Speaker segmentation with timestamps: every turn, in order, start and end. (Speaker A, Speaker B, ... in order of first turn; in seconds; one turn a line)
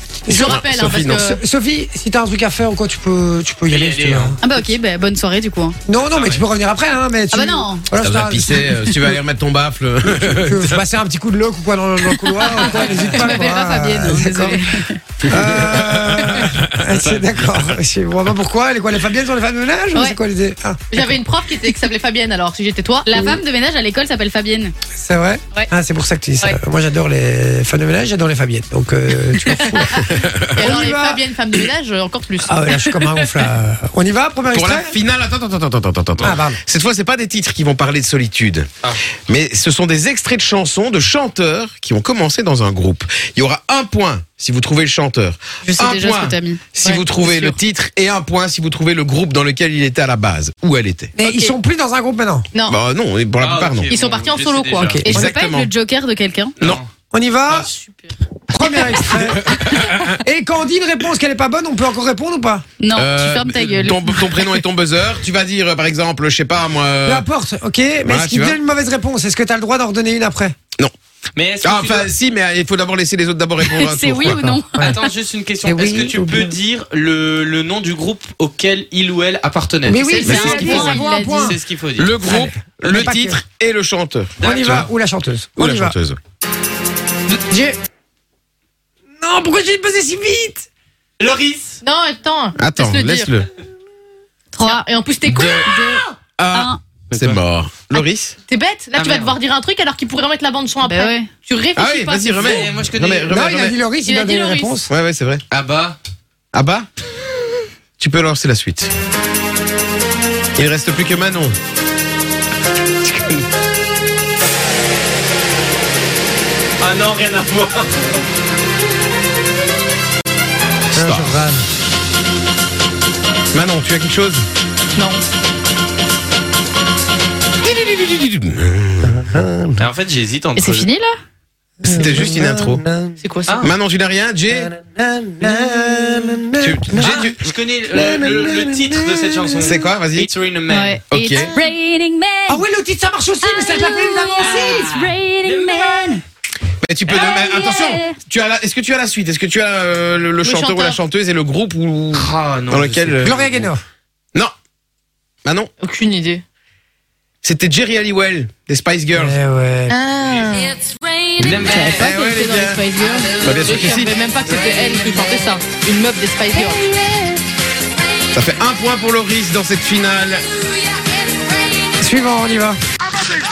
Speaker A: 0.2-4.4
Speaker B: 0.3-1.4
Speaker C: 0.4-1.2
Speaker D: 3.7-4.3
Speaker E: 4.4-5.8
Speaker A: 5.9-9.2
Speaker D: 6.1-6.4
Speaker E: 7.3-7.8
Speaker C: 8.0-10.8
Speaker A: 10.2-14.6
Speaker B: 12.4-13.5
Speaker D: 12.7-13.1
Speaker E: 12.7-15.0
Speaker A: 15.3-21.0
Speaker C: 15.4-16.6
Speaker D: 16.9-17.3
Speaker B: 20.9-23.1
Speaker E: 23.0-24.7
Speaker A: 23.1-23.4
Speaker A: 25.0-31.2
Speaker B: 29.4-33.3
Speaker C: 29.9-30.8
Speaker A: 32.5-34.9
Speaker C: 34.5-38.7
Speaker A: 36.2-36.6
Speaker C: 39.3-51.1
Speaker E: 45.6-46.7
Speaker B: 46.8-47.5
Speaker A: 51.2-52.5
Speaker B: 51.2-51.5
Speaker C: 52.7-53.9
Speaker D: 53.4-55.1
Speaker B: 53.9-55.0
Speaker C: 54.8-55.7
Speaker E: 55.0-56.5
Speaker D: 56.6-56.9
Speaker A: 57.1-57.7
Speaker D: 57.5-57.9
Speaker A: 58.5-62.6
Speaker C: 59.4-60.1
Speaker E: 62.8-64.6
Speaker C: 62.9-67.2
Speaker A: 67.0-70.5
Speaker C: 68.0-68.6
Speaker D: 71.3-72.1
Speaker C: 71.6-74.6
Speaker E: 73.6-75.1
Speaker D: 74.8-80.0
Speaker A: 75.6-76.5
Speaker A: 79.8-81.6
Speaker B: 80.0-81.1
Speaker E: 80.2-81.5
Speaker C: 80.2-80.8
Speaker D: 81.4-82.1
Speaker C: 82.0-84.8
Speaker A: 82.2-83.4
Speaker D: 84.4-84.9
Speaker A: 84.4-85.9
Speaker C: 85.6-86.2
Speaker A: 87.5-87.8
Speaker A: 89.2-90.7
Speaker D: 91.2-91.8
Speaker B: 91.8-93.3
Speaker C: 92.6-93.5
Speaker E: 94.5-94.8
Speaker B: 94.6-96.0
Speaker C: 95.3-95.6
Speaker E: 95.5-95.8
Speaker C: 96.4-98.3
Speaker E: 96.5-96.8
Speaker D: 97.1-97.4
Speaker B: 98.5-102.6
Speaker D: 98.9-99.4
Speaker E: 100.8-101.3
Speaker C: 101.8-103.8
Speaker D: 102.4-103.3
Speaker A: 103.3-104.9
Speaker B: 104.0-104.8
Speaker C: 104.9-105.4
Speaker D: 105.5-106.0
Speaker C: 106.5-106.9
Speaker C: 108.0-108.9
Speaker C: 110.5-111.5
Speaker D: 116.8-118.0
Speaker C: 120.9-121.4
Speaker A: 120.9-121.6
Speaker C: 123.5-124.5
Speaker B: 124.9-125.2
Speaker C: 127.6-129.3
Speaker A: 129.1-129.8
Speaker D: 129.8-130.9
Speaker E: 130.6-131.1
Speaker A: 131.8-133.2
Speaker C: 131.8-132.8
Speaker B: 133.2-133.6
Speaker D: 133.5-133.7
Speaker C: 133.6-134.7
Speaker A: 134.5-137.3
Speaker C: 136.6-137.5
Speaker D: 137.0-141.0
Speaker A: 137.9-139.7
Speaker C: 139.6-140.3
Speaker E: 140.7-142.6
Speaker C: 141.1-141.5
Speaker A: 142.5-144.8
Speaker E: 143.4-146.2
Speaker D: 144.4-145.8
Speaker C: 146.8-153.4
Speaker E: 147.1-148.2
Speaker B: 150.4-151.0
Speaker D: 152.1-153.5
Speaker A: 153.2-153.8
Speaker C: 155.4-155.7
Speaker B: 155.8-156.4
Speaker C: 157.4-159.4
Speaker A: 159.1-160.0
Speaker B: 159.9-160.8
Speaker E: 160.7-163.3
Speaker D: 161.4-162.1
Speaker C: 161.8-162.8
Speaker B: 161.9-166.9
Speaker C: 163.4-164.1
Speaker C: 168.3-170.4
Speaker A: 172.0-172.8